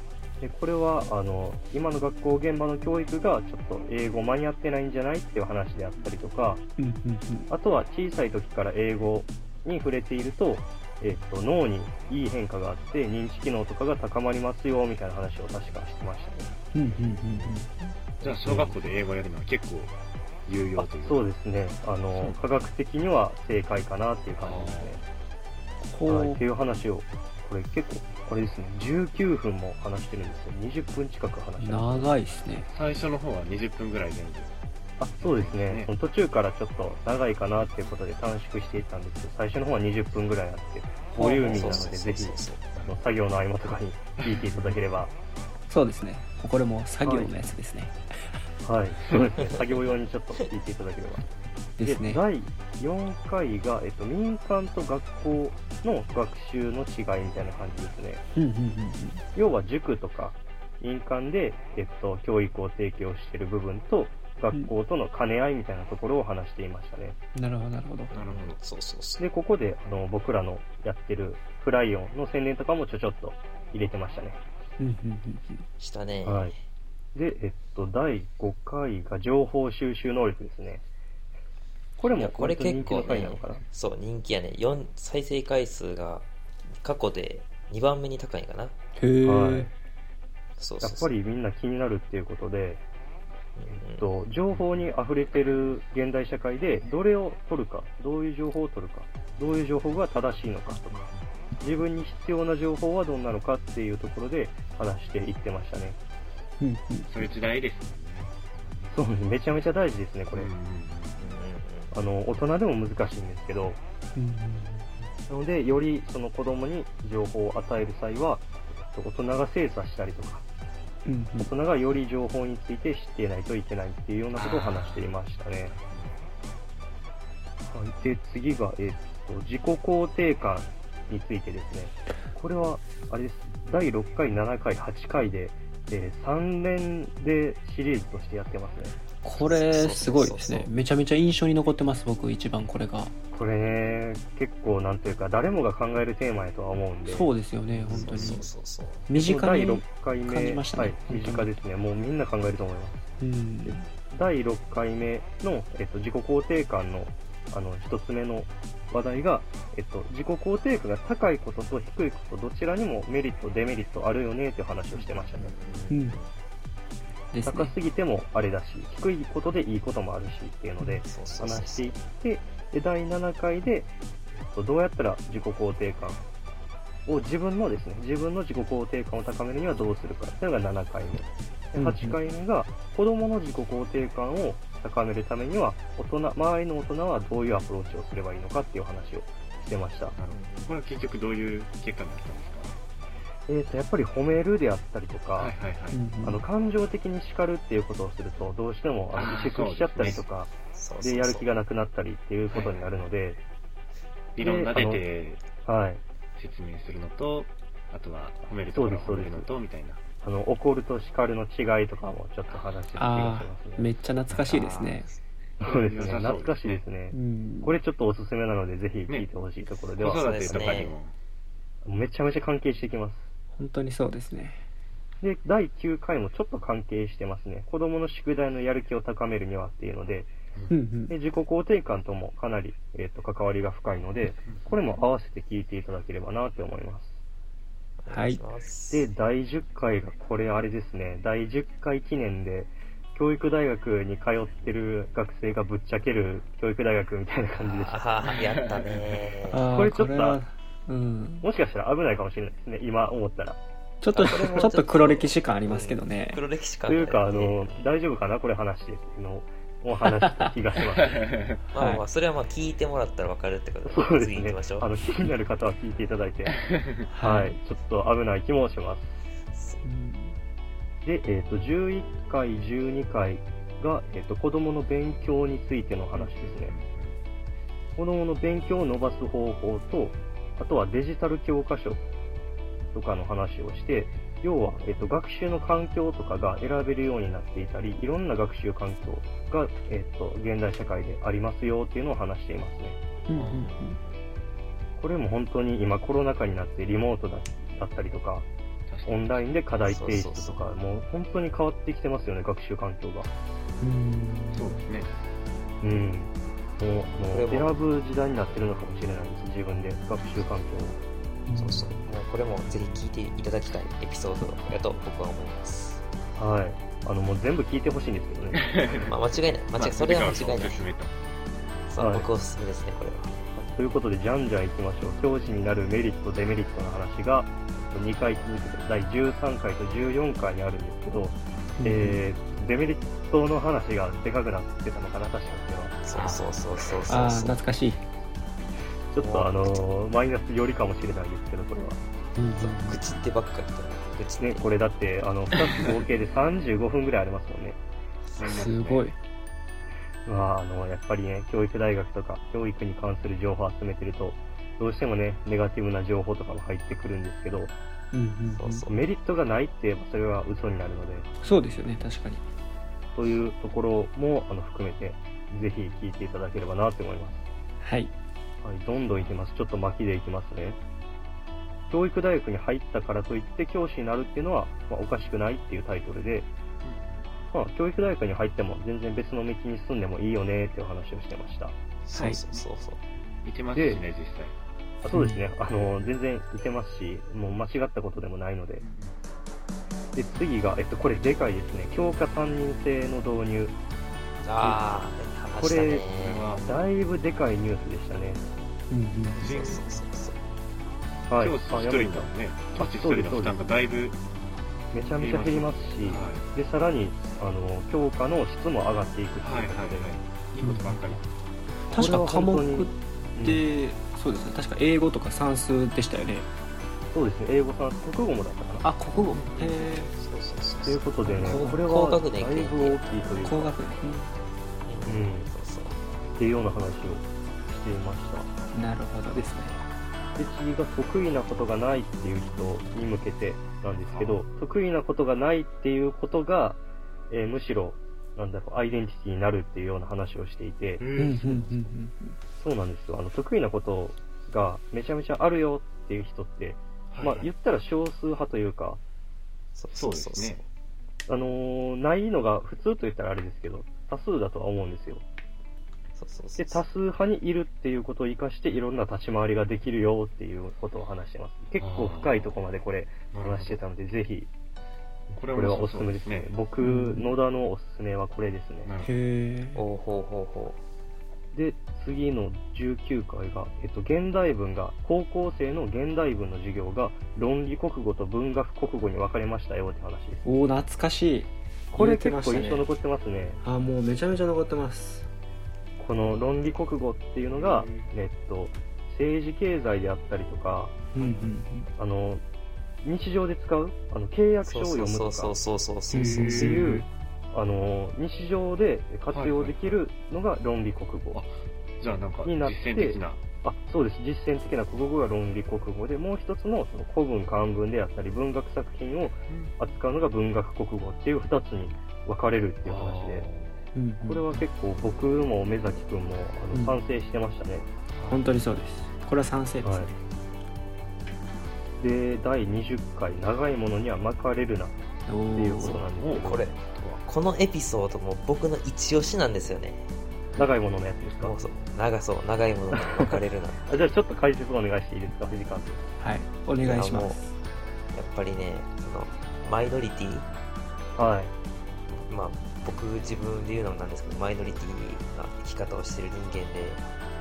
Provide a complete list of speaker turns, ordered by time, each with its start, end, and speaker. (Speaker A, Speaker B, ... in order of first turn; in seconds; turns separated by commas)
Speaker A: 0.4-6.6, Speaker B: 6.8-7.5, Speaker A: 7.5-16.6, Speaker B: 16.7-17.9, Speaker A: 18.2-18.7, Speaker C: 18.2-19.9, Speaker C: 20.4-21.2, Speaker A: 20.8-25.0, Speaker C: 22.1-22.4, Speaker C: 24.4-25.0, Speaker B: 25.8-26.4, Speaker A: 26.1-32.1, Speaker B: 31.6-32.7, Speaker C: 32.7-34.5, Speaker A: 35.0-45.1, Speaker C: 35.2-35.9, Speaker B: 41.1-41.9, Speaker D: 41.5-42.6, Speaker C: 44.3-44.7, Speaker B: 45.7-47.9, Speaker A: 47.0-47.3, Speaker A: 48.6-51.2, Speaker B: 51.8-52.2, Speaker A: 51.8-58.2, Speaker B: 58.3-59.2, Speaker A: 59.4-67.2, Speaker B: 67.3-68.1, Speaker D: 68.1-69.2, Speaker C: 68.1-68.6, Speaker A: 69.2-74.4, Speaker B: 74.8-75.6, Speaker D: 75.8-76.6, Speaker A: 76.2-76.5, Speaker A: 77.1-80.8, Speaker A: 82.0-83.6, Speaker D: 82.0-86.3, Speaker D: 86.8-88.8, Speaker B: 89.0-89.7, Speaker A: 89.2-89.7, Speaker D: 90.6-91.1, Speaker A: 90.8-92.8, Speaker D: 93.6-94.0, Speaker A: 93.8-101.1, Speaker C: 94.5-94.8, Speaker A: 101.6-106.0, Speaker B: 106.6-107.3, Speaker C: 107.1-108.9, Speaker A: 108.9-110.5, Speaker C: 110.3-111.4, Speaker D: 111.2-111.9, Speaker A: 111.9-113.8, Speaker B: 114.2-115.0, Speaker A: 115.3-120.4, Speaker B: 121.0-121.5, Speaker A: 121.4-125.8, Speaker C: 124.3-125.1, Speaker C: 125.7-126.2, Speaker A: 127.7-139.0, Speaker B: 139.2-143.1, Speaker D: 139.4-140.7, Speaker A: 143.3-147.3, Speaker B: 147.1-148.4, Speaker D: 147.7-149.1, Speaker C: 147.9-148.5, Speaker B: 149.1-151.6, Speaker A: 149.1-153.0, Speaker B: 153.2-153.8, Speaker A: 153.7-165.6, Speaker D: 164.9-166.3, Speaker B: 165.9-166.2, Speaker B: 167.3-167.7, Speaker A: 167.4-176.2, Speaker D: 171.0-172.0, Speaker A: 177.1-190.2, Speaker B: 181.7-182.2, Speaker C: 190.2-192.7, Speaker D: 190.3-190.8, Speaker A: 193.5-195.5, Speaker C: 195.3-196.0, Speaker B: 195.9-196.4, Speaker A: 196.2-203.4, Speaker C: 199.1-200.2, Speaker D: 200.7-201.5, Speaker C: 204.3-205.4, Speaker A: 204.4-205.0, Speaker A: 205.6-206.0, Speaker C: 206.3-210.0, Speaker A: 208.7-209.5, Speaker A: 210.2-213.9, Speaker B: 212.9-215.1, Speaker D: 214.5-215.2, Speaker C: 215.6-216.8, Speaker A: 215.6-220.9, Speaker B: 217.1-217.8, Speaker C: 220.0-221.1, Speaker D: 220.1-220.9, Speaker A: 221.8-223.2, Speaker B: 223.6-224.6, Speaker A: 225.2-230.3, Speaker B: 230.7-231.1, Speaker A: 231.1-237.2, Speaker C: 234.5-234.7, Speaker D: 238.0-239.1, Speaker B: 238.1-238.4, Speaker A: 238.9-248.0, Speaker D: 247.6-249.6, Speaker B: 249.5-251.5, Speaker A: 249.6-250.4, Speaker A: 251.4-253.6, Speaker B: 254.0-256.4, Speaker D: 254.1-257.8, Speaker A: 256.9-261.3, Speaker D: 261.7-264.9, Speaker B: 261.8-262.0, Speaker A: 263.8-266.7, Speaker B: 267.1-267.6, Speaker A: 267.2-269.1, Speaker D: 269.5-269.8, Speaker B: 269.8-270.4, Speaker A: 271.0-276.7, Speaker C: 276.4-277.2, Speaker A: 278.0-282.0, Speaker A: 282.9-293.0, Speaker B: 293.2-294.0, Speaker C: 293.4-293.7, Speaker D: 293.6-294.2, Speaker A: 295.0-298.5, Speaker C: 298.9-299.5, Speaker A: 299.1-303.3, Speaker D: 299.8-300.7, Speaker B: 303.8-304.8, Speaker C: 304.5-305.1, Speaker A: 305.8-311.0, Speaker D: 307.3-307.8, Speaker B: 311.5-312.0, Speaker D: 311.6-316.0, Speaker A: 316.4-318.6, Speaker C: 318.6-319.1, Speaker D: 319.1-320.9, Speaker C: 319.7-321.1, Speaker D: 321.9-323.4, Speaker A: 322.0-322.3, Speaker A: 323.6-336.0, Speaker B: 331.8-332.2, Speaker D: 336.0-337.6, Speaker B: 337.1-338.0, Speaker A: 339.1-342.0, Speaker D: 339.2-339.9, Speaker B: 342.4-343.2, Speaker D: 342.6-344.7, Speaker A: 344.4-347.8, Speaker C: 348.4-349.1, Speaker B: 348.4-349.1, Speaker A: 350.2-357.7, Speaker B: 358.1-358.9, Speaker D: 358.6-358.9, Speaker A: 358.9-361.3, Speaker B: 361.4-362.4, Speaker A: 363.1-367.4, Speaker B: 367.8-368.1, Speaker A: 368.6-370.8, Speaker C: 369.1-369.3, Speaker A: 371.9-376.5, Speaker C: 376.8-377.5, Speaker A: 377.5-381.7, Speaker D: 382.1-383.0, Speaker C: 382.1-382.6, Speaker C: 383.4-384.6, Speaker A: 383.7-384.0, Speaker A: 385.0-388.8, Speaker B: 385.1-385.4, Speaker C: 388.8-389.2, Speaker A: 390.1-393.7, Speaker D: 394.4-396.5, Speaker A: 395.6-396.0, Speaker C: 396.1-396.6, Speaker A: 396.6-398.5, Speaker B: 398.9-399.4, Speaker D: 399.4-400.4, Speaker C: 399.4-400.0, Speaker A: 401.3-403.6, Speaker C: 401.4-404.2, Speaker A: 404.9-410.2, Speaker C: 405.2-406.4, Speaker C: 409.4-411.3, Speaker B: 410.6-411.1, Speaker B: 411.9-416.5, Speaker A: 411.9-413.6, Speaker A: 417.1-418.9, Speaker B: 418.8-420.1, Speaker C: 419.1-420.1, Speaker D: 420.2-423.4, Speaker A: 420.8-423.8, Speaker B: 421.2-421.8, Speaker B: 423.4-424.4, Speaker D: 424.8-426.0, Speaker A: 425.1-425.5, Speaker A: 426.4-428.5, Speaker B: 428.7-429.8, Speaker A: 429.3-429.8, Speaker A: 430.3-441.1, Speaker C: 434.1-434.4, Speaker C: 441.0-441.7, Speaker B: 441.2-442.4, Speaker A: 442.6-449.0, Speaker C: 447.1-447.5, Speaker D: 449.7-450.7, Speaker C: 449.9-450.6, Speaker A: 451.3-455.2, Speaker D: 456.1-456.8, Speaker A: 456.6-464.5, Speaker C: 461.8-462.5, Speaker C: 463.3-463.8, Speaker C: 465.3-466.5, Speaker A: 465.5-468.9, Speaker B: 466.8-467.3, Speaker C: 468.8-469.1, Speaker B: 469.0-469.8, Speaker D: 469.7-470.8, Speaker A: 471.5-480.6, Speaker B: 480.4-482.9, Speaker A: 481.9-483.6, Speaker B: 483.6-485.2, Speaker A: 486.0-491.1, Speaker C: 487.5-488.1, Speaker B: 491.1-491.9, Speaker C: 491.2-491.5, Speaker A: 492.0-492.4, Speaker A: 493.0-495.5, Speaker D: 494.6-496.7, Speaker B: 496.1-496.9, Speaker C: 496.1-497.0, Speaker A: 496.6-501.4, Speaker C: 499.3-500.0, Speaker C: 501.3-503.4, Speaker A: 502.4-513.5, Speaker C: 509.5-509.7, Speaker C: 512.8-513.9, Speaker B: 513.9-514.6, Speaker A: 514.2-517.9, Speaker B: 516.7-517.0, Speaker C: 518.1-518.4, Speaker B: 518.3-520.1, Speaker A: 519.8-520.1, Speaker A: 522.0-525.0, Speaker B: 525.3-526.0, Speaker A: 525.5-526.7, Speaker D: 525.8-530.1, Speaker C: 526.2-527.2, Speaker A: 530.6-531.5, Speaker D: 531.4-534.0, Speaker A: 533.9-536.0, Speaker B: 536.2-537.5, Speaker D: 536.8-537.4, Speaker D: 538.1-540.5, Speaker A: 541.1-541.5, Speaker D: 542.1-547.0